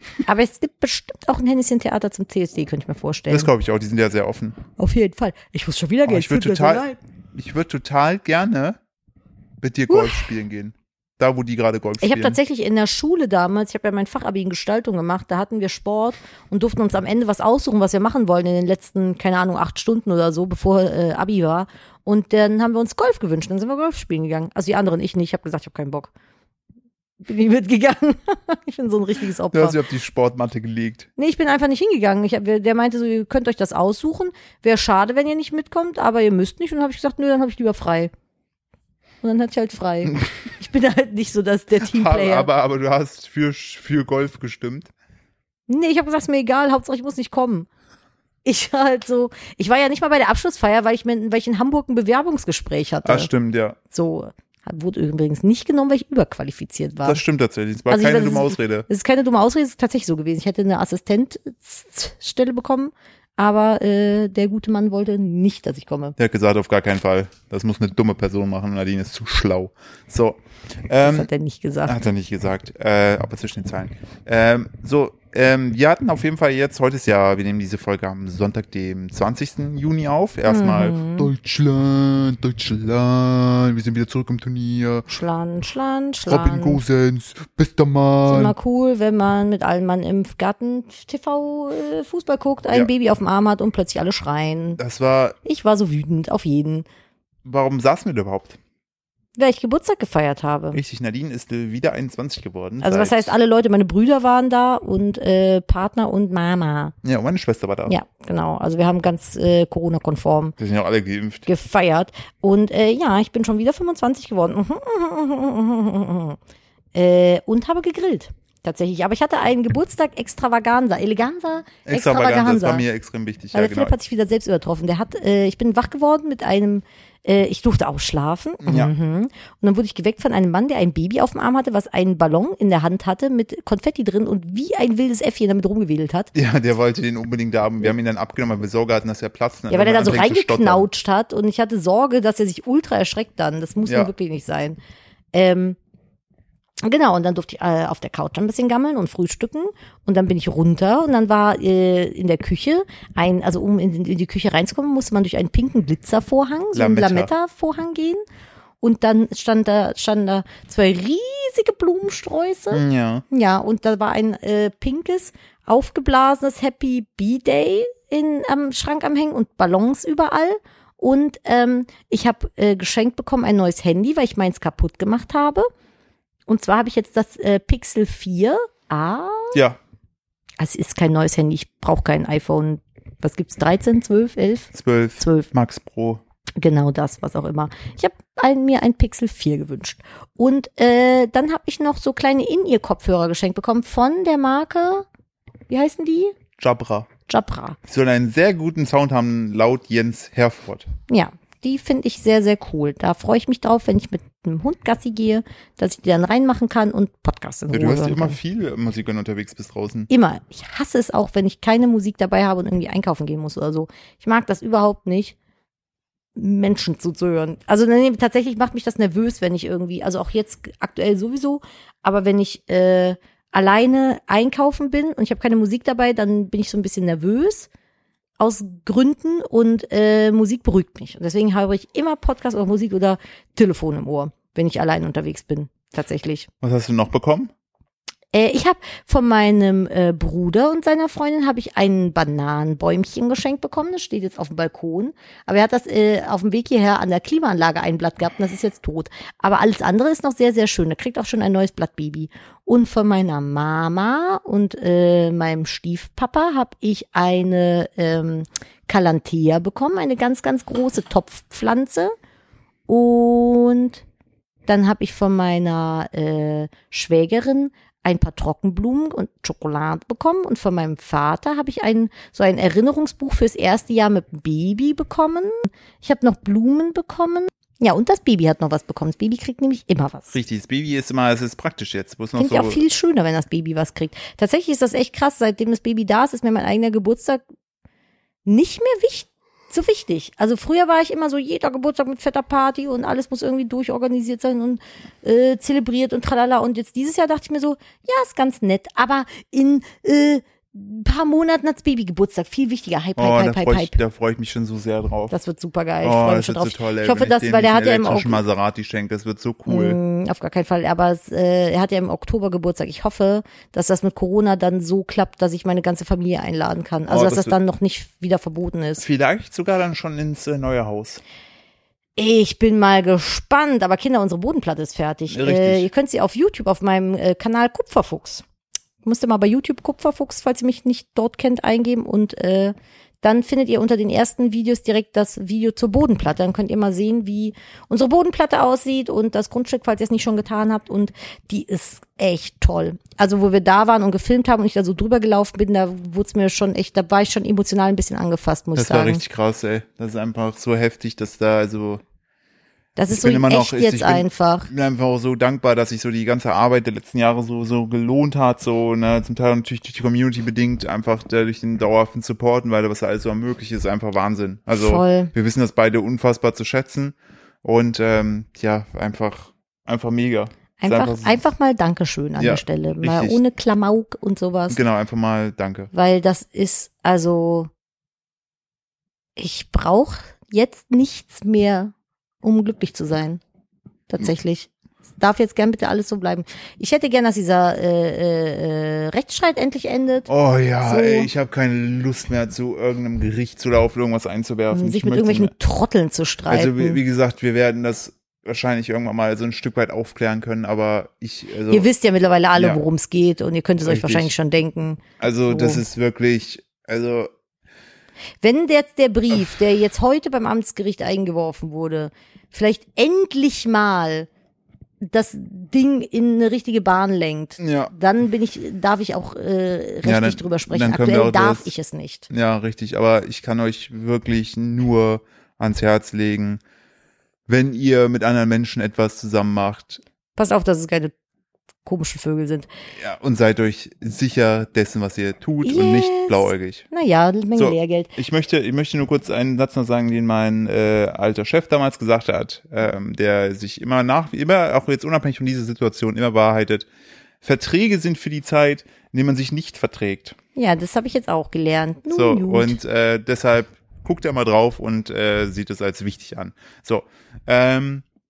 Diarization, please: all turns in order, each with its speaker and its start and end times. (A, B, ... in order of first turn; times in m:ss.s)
0:00.3-0:03.5 A
0:03.3-0:04.6 B
0:04.8-0:07.0 A
0:06.1-0:08.8 B
0:09.6-0:12.4 B
0:09.9-0:10.3 A
0:12.0-0:26.1 A
0:27.2-0:29.8 A
0:29.5-0:31.1 B
0:31.2-0:38.1 A
0:39.2-0:42.5 A
0:41.8-0:44.9 B
0:45.7-0:47.7 A
0:48.4-0:53.3 A
0:53.0-0:53.8 B
0:53.9-0:57.2 A
0:57.0-0:58.9 B
0:57.9-1:06.2 A
1:06.2-1:11.3 B
1:11.0-1:12.0 A
1:11.9-1:25.1 B
1:20.5-1:21.3 A
1:25.1-1:26.8 A
1:26.3-1:28.6 B
1:28.3-1:34.8 A
1:34.8-1:35.4 B
1:35.4-1:36.9 A
1:37.4-1:38.6 B
1:39.4-1:40.8 A
1:40.7-1:43.3 B
1:42.8-1:47.0 A
1:47.0-1:48.0 B
1:47.9-1:50.6 A
1:50.6-1:51.5 B
1:51.5-1:56.4 A
1:56.9-2:02.8 A
2:01.9-2:04.0 B
2:03.5-2:16.3 A
2:08.6-2:08.9 B
2:16.3-2:20.9 B
2:19.7-2:24.8 A
2:23.9-2:24.1 B
2:25.3-2:25.8 A
2:26.8-2:38.2 A
2:36.7-2:37.3 B
2:38.8-2:55.7 A
2:42.7-2:43.2 B
2:56.5-2:59.6 A
2:59.5-2:59.8 B
3:00.6-3:05.5 A
3:04.7-3:06.2 B
3:06.6-3:15.1 A
3:15.7-3:16.4 A
3:16.6-3:17.1 B
3:17.3-3:17.8 A
3:17.9-3:20.9 B
3:21.1-3:28.4 A
3:27.7-3:30.1 B
3:30.1-3:35.4 A
3:36.4-3:47.7 A
3:48.4-3:56.5 A
3:56.6-3:57.5 B
3:58.3-4:22.1 A
4:22.9-4:24.0 A
4:24.7-4:40.4 A
4:40.3-4:42.8 B
4:42.4-4:47.4 A
4:48.5-5:04.0 A
5:03.2-5:05.4 B
5:05.3-5:08.4 A
5:06.0-5:10.0 B
5:09.7-5:19.0 A
5:17.1-5:17.6 B
5:19.0-5:21.2 B
5:22.2-5:28.4 A
5:25.3-5:25.9 B
5:29.0-5:49.2 A
5:48.8-5:52.0 B
5:53.0-5:54.7 A
5:53.1-6:11.4 B
6:04.7-6:05.3 A
6:10.8-6:14.8 A
6:12.4-6:13.4 B
6:14.7-6:15.9 B
6:15.9-6:17.7 A
6:19.4-6:23.4 A
6:24.1-6:30.3 A
6:30.3-6:35.5 B
6:30.8-6:31.3 A
6:34.7-6:37.0 A
6:36.5-6:41.9 B
6:41.7-6:45.8 A
6:42.6-6:42.8 B
6:43.8-6:44.3 B
6:45.2-6:47.3 B
6:48.4-6:54.3 A
6:55.0-7:02.3 A
6:57.6-6:57.9 B
7:00.0-7:01.7 B
7:02.3-7:06.6 B
7:07.5-7:10.0 B
7:10.4-7:11.1 A
7:11.8-7:12.7 A
7:13.0-7:16.9 B
7:15.6-7:18.1 A
7:17.6-7:26.9 B
7:27.4-7:30.4 B
7:30.6-7:32.8 A
7:32.1-7:38.0 B